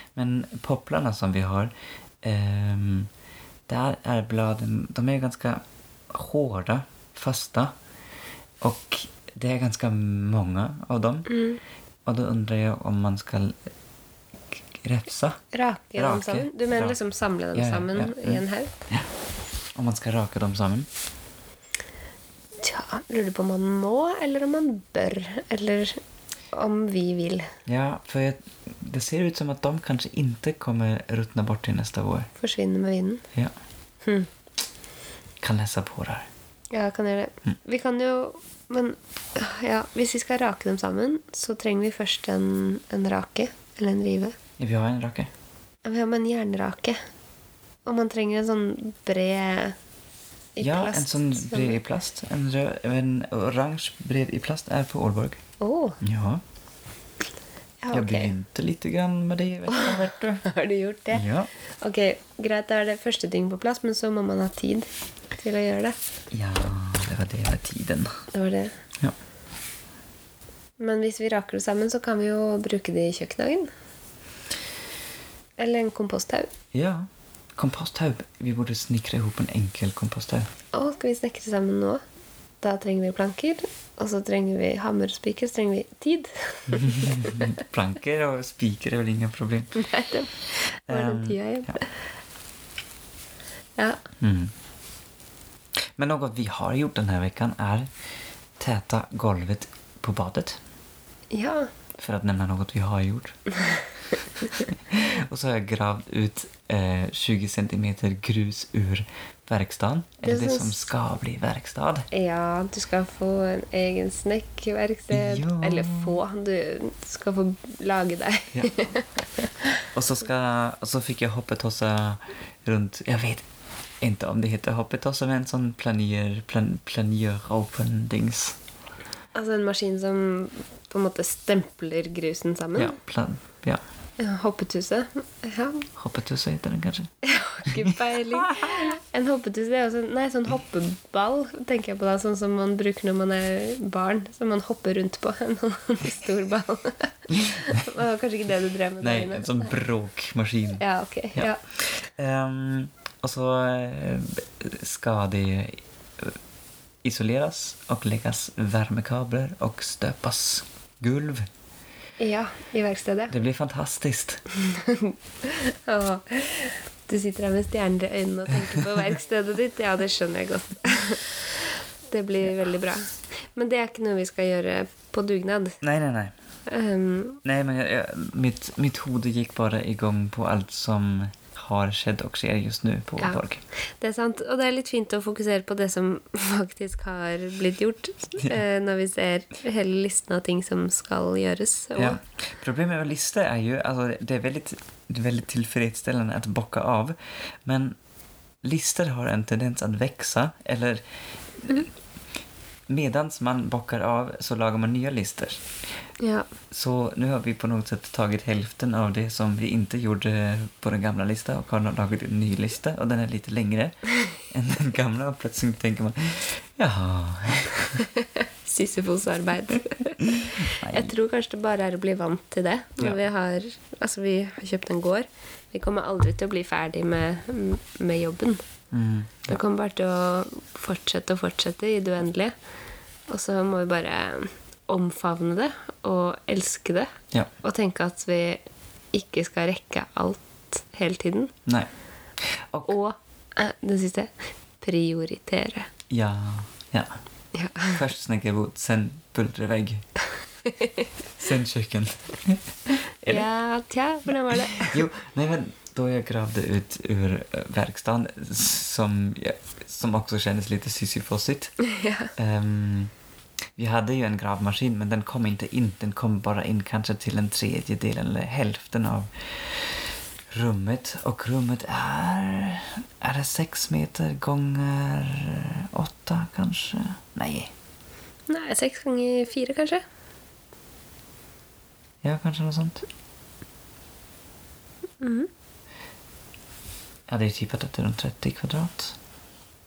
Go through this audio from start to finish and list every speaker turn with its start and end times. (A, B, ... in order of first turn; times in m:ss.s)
0:00.2-0:03.1 A
0:03.7-0:07.7 A
0:08.6-0:11.3 A
0:11.3-0:11.6 B
0:12.1-0:13.6 A
0:14.7-0:15.4 A
0:15.5-0:18.7 B
0:16.0-0:17.0 A
0:17.6-0:19.1 A
0:19.8-0:20.9 A
0:22.6-0:26.0 B
0:26.5-0:27.5 B
0:27.7-0:32.3 A
0:32.4-0:33.2 B
0:34.0-0:34.3 B
0:35.4-0:36.3 A
0:36.7-0:44.4 B
0:44.6-0:45.3 A
0:45.8-0:47.0 B
0:47.9-0:49.8 B
0:50.6-0:51.8 B
0:50.6-0:55.4 A
0:55.6-0:56.0 B
0:56.0-0:56.4 A
0:57.8-0:58.3 B
0:57.9-1:00.4 A
0:59.7-1:01.2 B
1:01.1-1:01.5 A
1:01.8-1:04.9 B
1:05.4-1:06.0 B
1:06.3-1:08.1 A
1:08.3-1:08.7 B
1:10.8-1:13.7 B
1:15.6-1:16.5 B
1:16.7-1:20.5 A
1:20.7-1:22.0 B
1:22.6-1:27.5 B
1:26.7-1:29.8 A
1:29.8-1:31.9 B
1:30.9-1:31.8 A
1:34.2-1:34.5 A
1:36.0-1:37.9 A
1:38.6-1:40.6 A
1:41.3-1:41.7 B
1:42.0-1:43.4 A
1:44.9-1:52.1 A
1:50.2-1:50.8 B
1:52.1-1:59.8 B
1:55.1-1:56.2 A
2:00.0-2:03.5 A
2:04.0-2:08.6 A
2:09.4-2:13.0 B
2:12.8-2:13.8 A
2:14.2-2:15.9 B
2:16.0-2:17.1 A
2:17.2-2:29.7 B
2:17.7-2:18.8 A
2:29.0-2:30.8 A
2:30.8-2:31.6 B
2:31.4-2:36.4 A
2:37.0-2:41.5 A
2:42.2-2:43.3 B
2:43.3-2:44.4 A
2:44.6-2:55.8 B
2:55.8-2:56.3 A
2:56.7-2:57.4 B
2:57.4-3:03.6 A
3:04.0-3:12.2 B
3:12.0-3:18.0 A
3:18.6-3:21.0 A
3:21.6-3:21.9 A
3:22.9-3:25.6 A
3:26.2-3:26.5 B
3:26.7-3:38.0 A
3:38.0-3:48.6 B
3:40.4-3:41.1 A
3:48.9-3:49.5 A
3:49.5-3:52.5 B
3:53.3-3:58.6 B
3:59.1-4:01.5 B
4:02.9-4:05.9 B
4:06.1-4:07.2 A
4:07.5-4:08.0 B
4:07.9-4:10.0 A
4:10.7-4:11.1 B
4:11.4-4:12.6 A
4:13.2-4:13.5 A
4:13.3-4:15.0 B
4:14.8-4:21.8 A
4:21.8-4:22.3 B
4:22.4-4:23.1 A
4:23.8-4:29.9 A
4:30.5-4:37.7 A
4:38.5-4:40.0 B
4:42.2-4:43.0 A
4:45.2-4:45.5 B
4:47.3-4:49.2 A